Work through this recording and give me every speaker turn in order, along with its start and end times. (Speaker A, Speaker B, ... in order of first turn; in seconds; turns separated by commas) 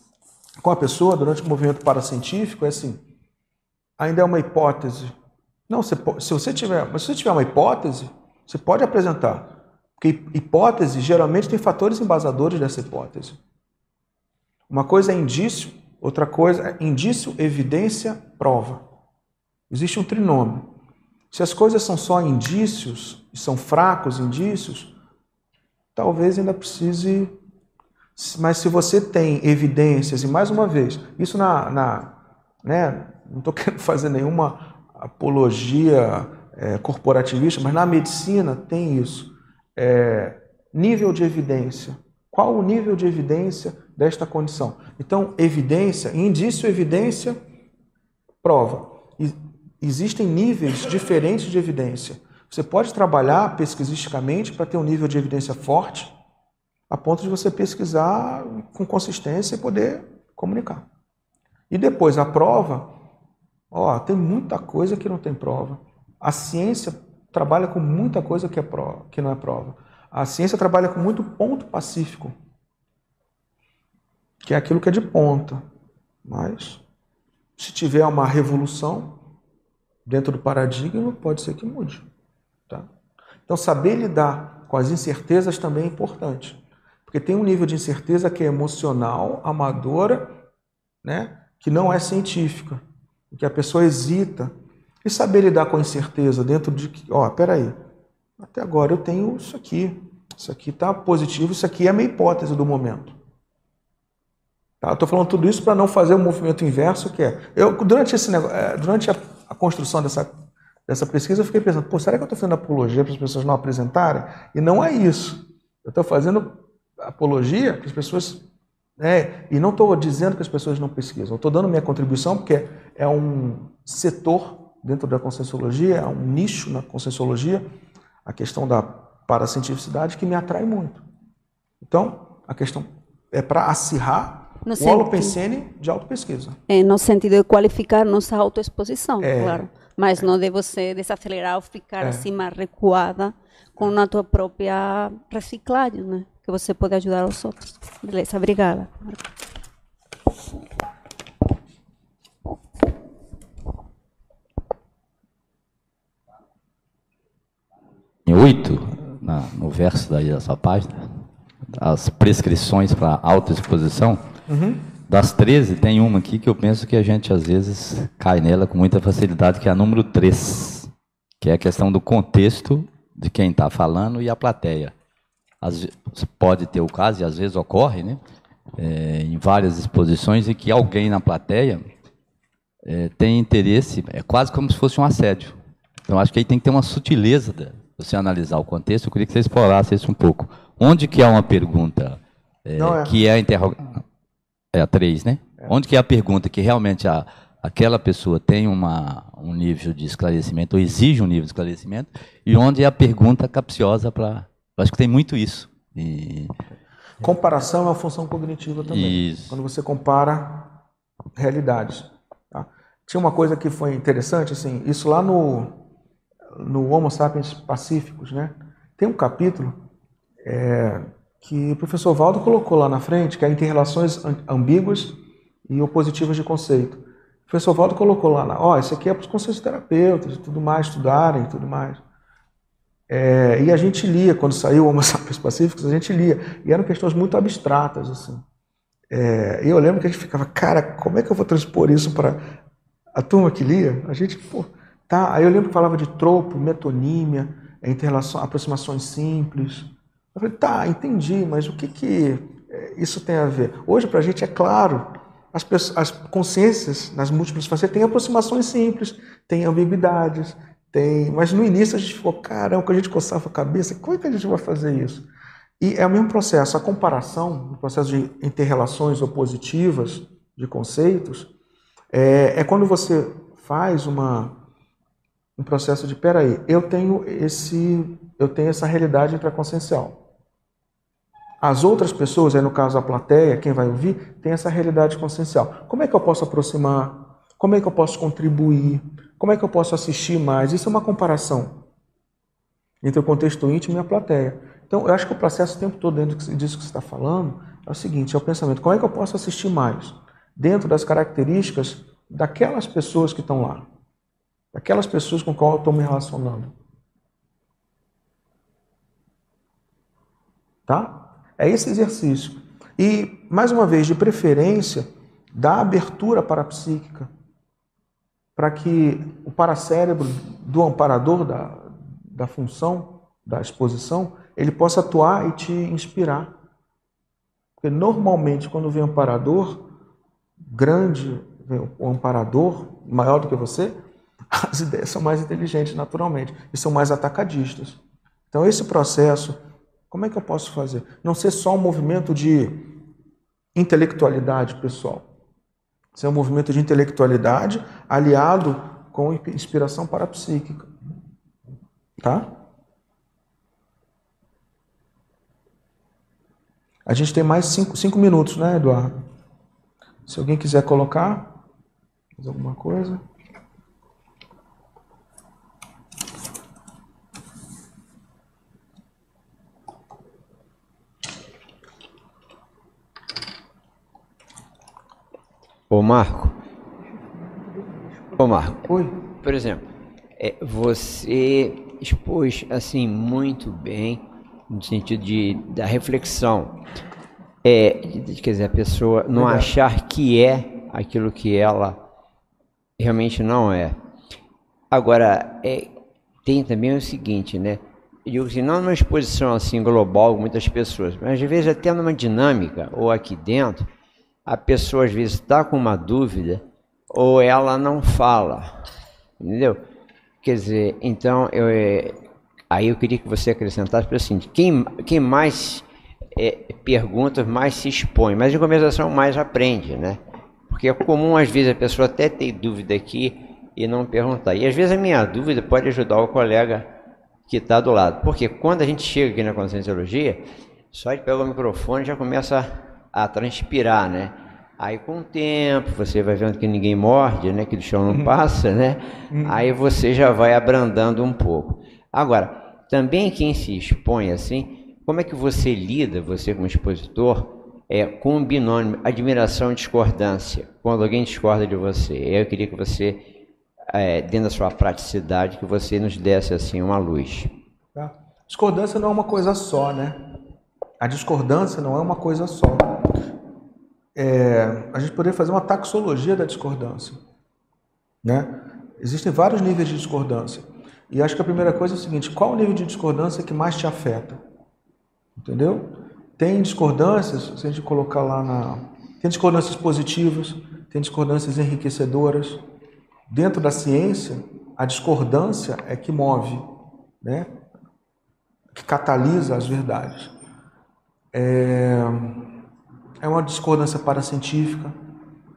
Speaker A: 0.6-3.0, Speaker A: 4.0-5.2, Speaker A: 5.7-13.4, Speaker A: 14.7-18.9, Speaker A: 19.7-20.7, Speaker A: 21.3-24.9, Speaker A: 25.9-27.3, Speaker A: 28.2-47.4, Speaker A: 48.4-56.1, Speaker A: 56.9-60.9, Speaker A: 61.7-63.0, Speaker A: 63.7-72.3, Speaker A: 74.4-75.6, Speaker A: 76.2-76.8, Speaker A: 77.6-79.2, Speaker A: 80.1-82.1, Speaker A: 83.5-90.4, Speaker A: 91.0-94.5, Speaker A: 95.0-97.8, Speaker A: 98.4-103.2, Speaker A: 104.8-110.3, Speaker A: 110.9-118.4, Speaker A: 119.0-127.7, Speaker A: 128.2-131.1, Speaker A: 131.8-136.6, Speaker B: 134.7-135.4, Speaker B: 136.7-149.3, Speaker A: 139.2-139.7, Speaker A: 142.0-142.3, Speaker C: 158.3-161.1, Speaker C: 161.7-164.2, Speaker A: 164.5-164.8, Speaker C: 165.1-174.9, Speaker C: 175.6-178.2, Speaker C: 178.8-181.9, Speaker C: 182.8-194.0, Speaker A: 192.8-193.2, Speaker C: 194.7-206.6, Speaker A: 207.2-210.8, Speaker C: 208.9-209.6, Speaker A: 211.4-215.8, Speaker A: 216.6-219.8, Speaker A: 220.4-232.0, Speaker A: 233.1-238.4, Speaker A: 239.1-242.4, Speaker A: 243.2-265.3, Speaker A: 265.8-271.5, Speaker A: 272.1-274.6, Speaker A: 275.6-280.2, Speaker A: 281.6-291.8, Speaker A: 293.0-303.9, Speaker A: 304.7-306.7, Speaker A: 310.9-317.3, Speaker A: 318.6-326.5, Speaker A: 327.8-329.9, Speaker A: 330.7-333.9, Speaker A: 334.5-338.0, Speaker A: 338.5-339.6, Speaker A: 340.1-343.0, Speaker A: 343.8-345.2, Speaker A: 346.1-350.9, Speaker A: 352.2-352.5, Speaker A: 357.1-359.2, Speaker A: 360.3-361.5, Speaker A: 362.4-363.2, Speaker D: 375.9-376.6, Speaker D: 378.4-379.8, Speaker A: 378.9-379.2, Speaker D: 380.4-386.9, Speaker D: 387.6-392.0, Speaker A: 389.3-389.7, Speaker D: 393.0-394.0, Speaker D: 394.9-403.9, Speaker D: 404.5-408.8, Speaker D: 409.4-409.8, Speaker D: 410.4-426.9, Speaker D: 427.5-453.3, Speaker A: 438.1-438.3, Speaker A: 439.3-439.6, Speaker D: 453.9-457.5, Speaker A: 457.9-460.3, Speaker A: 461.0-463.0, Speaker A: 464.1-467.2, Speaker A: 468.2-474.4, Speaker A: 475.4-482.6, Speaker A: 483.3-486.7, Speaker A: 487.2-487.5, Speaker A: 488.7-490.3, Speaker A: 491.3-492.5, Speaker A: 493.2-494.9